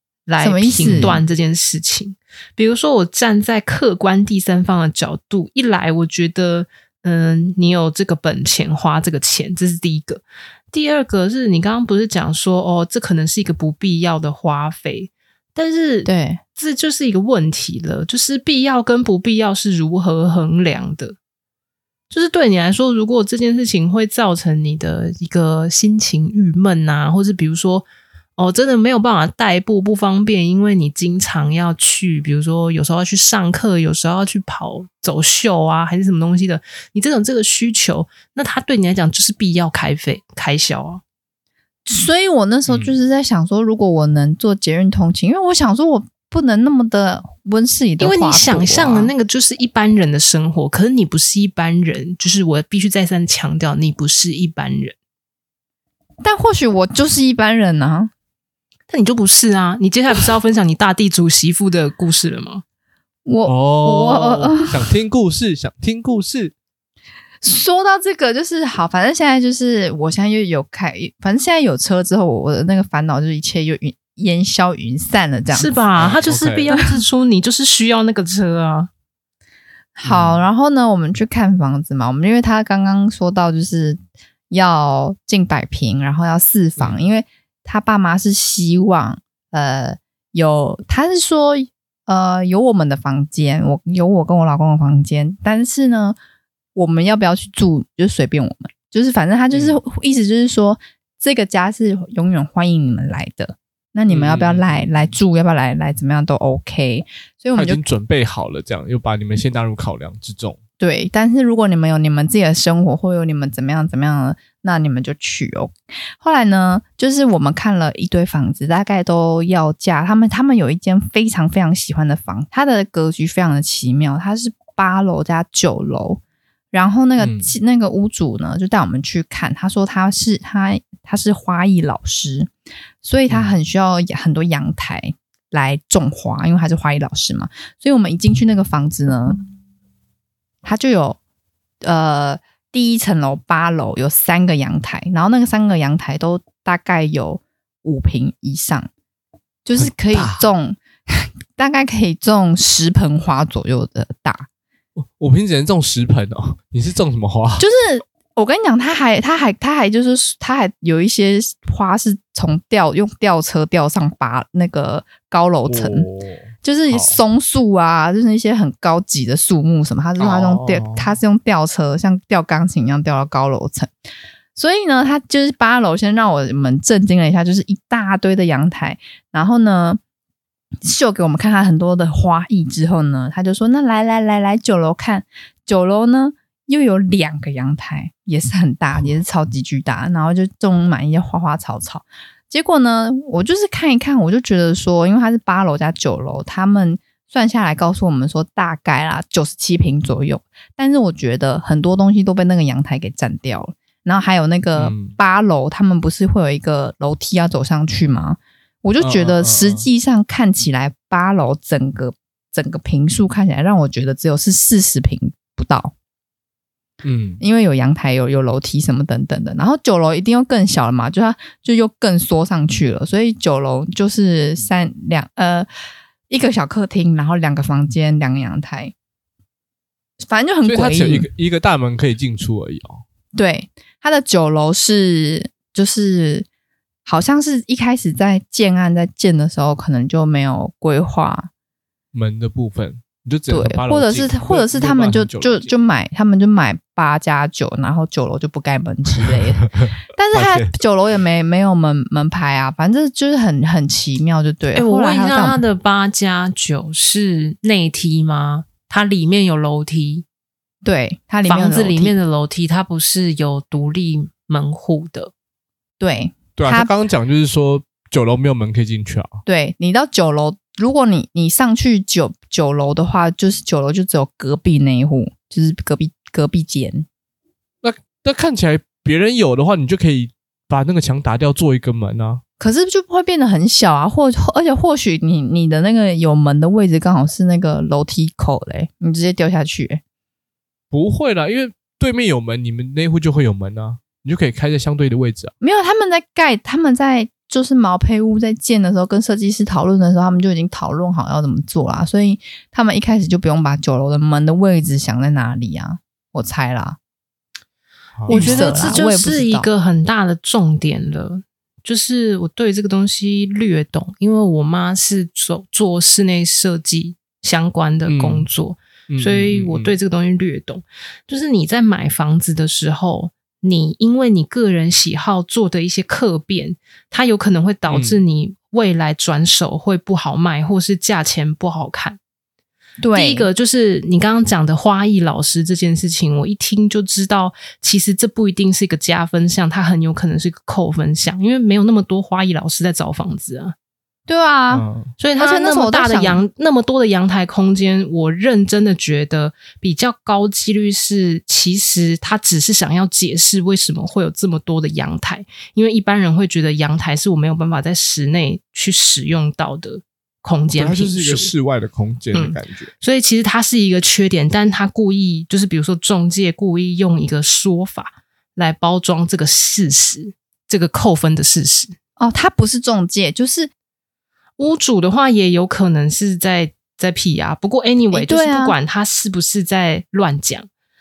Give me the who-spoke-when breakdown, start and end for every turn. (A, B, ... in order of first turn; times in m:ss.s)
0:00.3-0:21.2 A
0:00.4-0:01.2 B
0:00.9-0:01.1 C
0:16.0-0:16.4 B
0:22.1-0:27.9 A
0:28.4-0:41.0 A
0:41.9-0:49.1 B
0:42.7-0:43.0 C
0:48.0-0:55.0 A
0:56.2-0:58.1 B
0:58.9-1:02.6 A
1:03.3-1:04.7 B
1:03.4-1:06.5 C
1:07.4-1:15.8 B
1:15.5-1:18.9 A
1:16.0-1:16.7 C
1:16.7-1:17.0 B
1:20.0-1:24.0 B
1:20.0-1:20.4 C
1:24.5-1:36.2 B
1:36.8-1:47.8 B
1:39.5-1:39.8 C
1:44.1-1:44.9 C
1:47.6-1:50.6 C
1:50.8-2:06.2 B
2:06.7-2:12.5 B
2:07.2-2:07.5 C
2:13.0-2:19.4 B
2:13.3-2:13.5 C
2:20.6-2:21.2 B
2:21.8-2:28.9 B
2:29.6-2:34.5 B
2:29.8-2:30.5 C
2:35.0-2:37.6 C
2:37.6-2:46.1 B
2:45.7-2:47.2 C
2:46.6-2:53.9 B
2:50.2-2:51.2 C
2:54.6-3:00.0 B
3:00.8-3:35.9 B
3:24.8-3:25.2 C
3:29.0-3:29.9 C
3:37.0-3:37.4 C
3:37.4-3:45.7 B
3:46.3-3:48.9 B
3:50.2-3:51.3 B
3:50.6-3:53.0 C
3:53.4-3:56.5 B
3:57.1-4:01.5 B
4:02.1-4:05.7 C
4:03.5-4:15.6 B
4:09.2-4:10.7 C
4:14.7-4:20.2 A
4:20.8-4:22.1 B
4:21.5-4:25.3 A
4:26.0-4:26.9 B
4:26.6-4:29.4 C
4:29.5-4:37.1 B
4:37.8-4:42.4 C
4:42.6-4:50.0 B
4:50.9-4:55.5 C
4:55.6-5:07.0 B
5:08.2-5:09.0 C
5:08.3-5:09.7 B
5:08.3-5:32.2 A
5:18.1-5:18.5 C
5:19.1-5:20.0 C
5:27.9-5:28.2 C
5:33.0-5:33.5 B
5:33.2-5:43.7 A
5:44.3-5:44.8 B
5:44.7-5:45.1 C
5:45.2-6:01.5 A
5:45.4-5:46.4 B
6:00.7-6:02.9 C
6:02.3-6:12.0 A
6:12.2-6:13.7 B
6:14.6-6:20.7 A
6:18.1-6:18.8 B